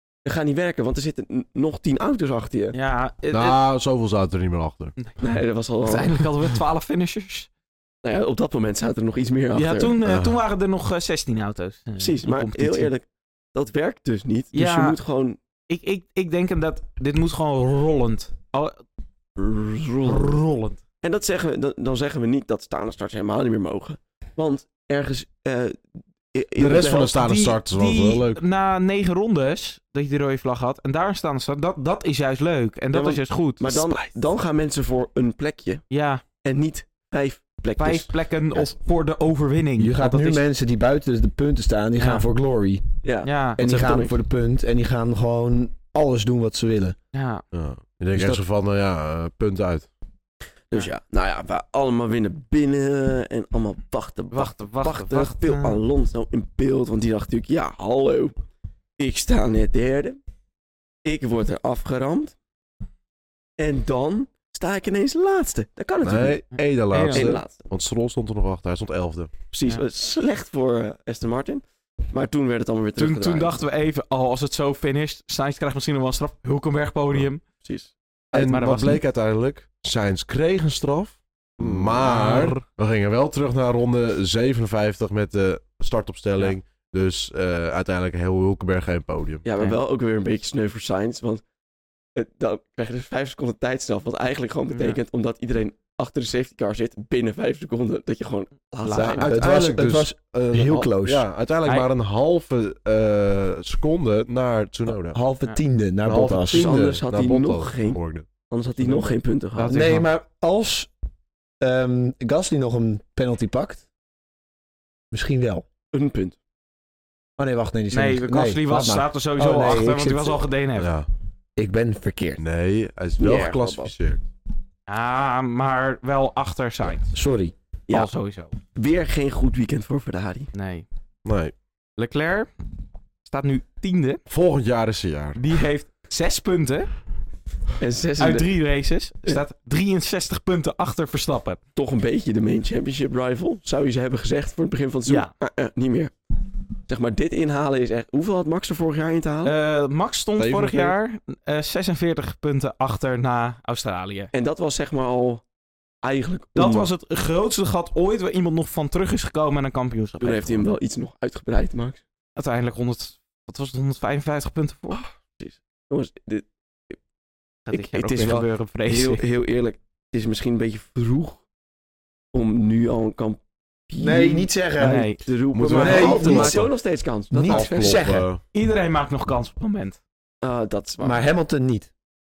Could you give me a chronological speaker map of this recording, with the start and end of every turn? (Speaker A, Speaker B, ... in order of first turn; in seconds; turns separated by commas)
Speaker A: 0.2-2.8, Speaker B: 2.7-3.6, Speaker C: 3.3-5.0, Speaker B: 5.0-7.5, Speaker A: 5.2-6.3, Speaker A: 8.0-10.0, Speaker B: 9.5-12.9, Speaker C: 10.0-10.4, Speaker A: 12.0-15.4, Speaker B: 14.5-15.0, Speaker B: 15.7-18.8, Speaker A: 19.4-20.4, Speaker B: 20.1-20.8, Speaker A: 21.0-25.8, Speaker A: 26.3-27.2, Speaker C: 26.6-28.4, Speaker B: 27.1-33.9, Speaker A: 32.9-35.8, Speaker B: 35.9-36.2, Speaker A: 36.4-38.7, Speaker B: 37.8-40.4, Speaker D: 39.8-42.8, Speaker B: 42.0-42.3, Speaker A: 43.0-44.2, Speaker B: 43.2-43.6, Speaker D: 43.6-47.0, Speaker B: 47.1-47.4, Speaker C: 47.5-49.9, Speaker A: 50.7-58.4, Speaker B: 54.3-55.8, Speaker A: 59.0-60.2, Speaker A: 61.0-62.4, Speaker A: 63.6-66.4, Speaker C: 66.0-69.3, Speaker B: 66.5-67.4, Speaker A: 67.1-67.6, Speaker A: 69.5-73.6, Speaker B: 73.0-77.4, Speaker A: 77.6-77.9, Speaker B: 78.3-79.0, Speaker C: 78.3-89.5, Speaker A: 81.6-82.0, Speaker B: 82.0-82.6, Speaker A: 89.4-91.4, Speaker A: 92.2-99.3, Speaker B: 94.7-95.0, Speaker B: 98.8-99.3, Speaker C: 99.0-105.2, Speaker D: 99.2-101.3, Speaker D: 104.9-107.0, Speaker C: 106.0-108.3, Speaker A: 106.5-109.8, Speaker B: 109.6-110.1, Speaker D: 109.7-110.9, Speaker D: 111.6-113.9, Speaker D: 115.1-115.7, Speaker A: 115.9-116.4, Speaker D: 117.4-120.4, Speaker B: 117.9-120.9, Speaker C: 120.8-121.1, Speaker D: 121.6-122.4, Speaker C: 122.4-124.2, Speaker A: 123.2-123.9, Speaker B: 124.9-127.1, Speaker D: 127.1-127.5, Speaker B: 127.9-128.6, Speaker A: 128.8-130.5, Speaker B: 130.5-130.9, Speaker C: 131.2-131.5, Speaker B: 132.0-132.5, Speaker B: 133.2-134.2, Speaker C: 134.3-135.4, Speaker B: 135.4-136.9, Speaker A: 137.8-138.5, Speaker B: 138.2-141.6, Speaker A: 141.8-146.1, Speaker A: 146.9-149.5, Speaker B: 149.4-154.3, Speaker C: 150.4-151.0, Speaker A: 154.3-155.4, Speaker A: 156.0-156.9, Speaker B: 156.6-160.7, Speaker A: 160.2-162.0, Speaker B: 162.4-165.0, Speaker A: 165.4-167.0, Speaker B: 167.7-169.2, Speaker A: 167.7-171.4, Speaker A: 172.3-178.1, Speaker D: 174.0-175.1, Speaker B: 174.8-175.3, Speaker C: 175.5-176.7, Speaker D: 175.6-176.7, Speaker D: 177.3-178.3, Speaker C: 177.5-178.4, Speaker B: 178.5-180.0, Speaker A: 180.4-181.2, Speaker D: 181.0-181.9